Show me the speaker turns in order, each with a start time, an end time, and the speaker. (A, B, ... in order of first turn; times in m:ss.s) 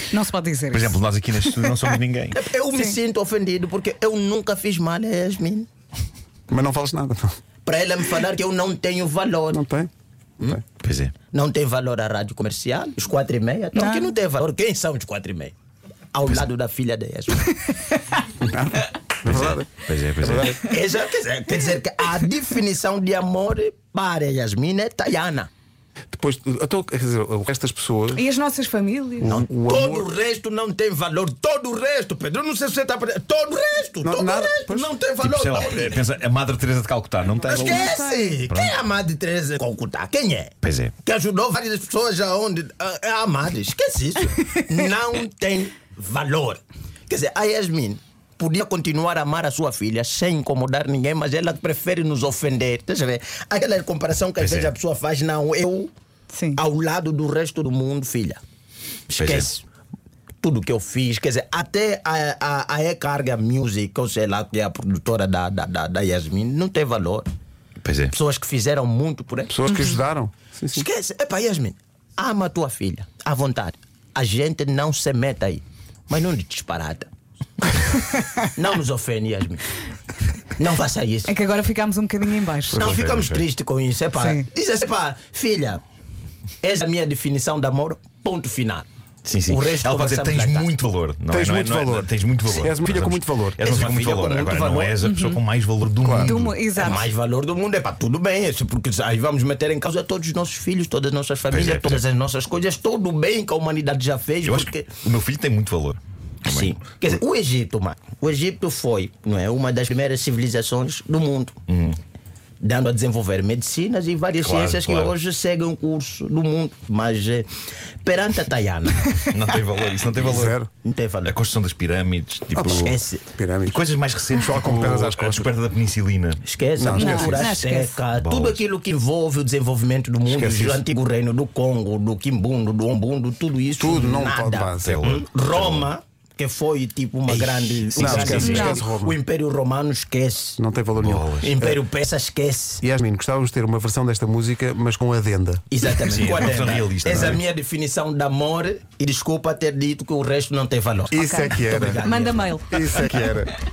0:00.1-0:01.0 A
0:00.7-0:02.4 B
0:02.3-0:05.7 C
0:02.7-0:03.0 A
0:06.5-0:07.4 D
0:07.6-0:09.6 C
0:09.5-0:09.9 D
0:10.8-0:11.2 B
0:11.2-0:15.5 C
0:13.8-0:14.1 A
0:16.1-0:17.5 C
0:18.4-0:20.6 D
0:19.2-0:20.5 B
0:20.4-0:25.5 C
0:26.1-0:28.2 D
0:28.2-0:29.3 A
0:29.2-0:30.1 D
0:29.3-0:36.1 C
0:34.0-0:34.9 D
0:35.2-0:37.8 B
0:37.5-0:55.9 C
0:37.5-0:38.4 A
0:38.5-0:38.8 B
0:40.6-0:41.0 B
0:54.4-0:54.7 B
0:56.3-0:56.6 A
0:56.5-0:58.4 C
0:59.1-0:59.6 C
0:59.2-0:59.5 B
1:00.4-1:07.3 C
1:07.8-1:08.2 B
1:08.1-1:09.5 C
1:09.5-1:10.8 D
1:10.7-1:17.1 C
1:18.6-1:19.6 C
1:20.6-1:21.4 C
1:21.3-1:22.8 A
1:22.8-1:25.8 C
1:22.8-1:23.5 B
1:24.1-1:24.5 A
1:26.6-1:28.9 C
1:29.2-1:36.6 B
1:29.5-1:30.7 C
1:31.3-1:33.8 D
1:33.6-1:35.0 C
1:35.1-1:35.4 A
1:36.0-1:36.4 D
1:36.2-1:37.1 A
1:36.7-1:44.9 C
1:41.5-1:42.1 B
1:44.4-1:46.8 B
1:46.5-1:51.6 C
1:51.7-1:52.0 B
1:52.6-1:57.5 C
1:54.4-1:55.2 B
1:58.0-1:59.1 C
1:59.3-2:00.6 B
2:00.2-2:00.7 D
2:00.8-2:01.3 C
2:01.2-2:03.0 B
2:02.6-2:03.8 D
2:02.7-2:03.2 C
2:03.7-2:06.5 B
2:04.4-2:05.5 D
2:06.4-2:20.6 C
2:06.8-2:07.5 D
2:06.9-2:08.0 A
2:08.0-2:08.6 B
2:10.3-2:10.8 D
2:13.8-2:15.0 D
2:14.8-2:15.9 B
2:17.3-2:18.4 B
2:18.0-2:19.2 D
2:18.4-2:18.8 A
2:20.6-2:21.8 D
2:21.0-2:21.5 B
2:21.4-2:22.8 C
2:22.8-2:25.7 D
2:25.7-2:33.0 C
2:26.0-2:27.4 B
2:27.1-2:27.4 D
2:31.1-2:32.1 D
2:32.0-2:32.8 A
2:32.7-2:33.6 D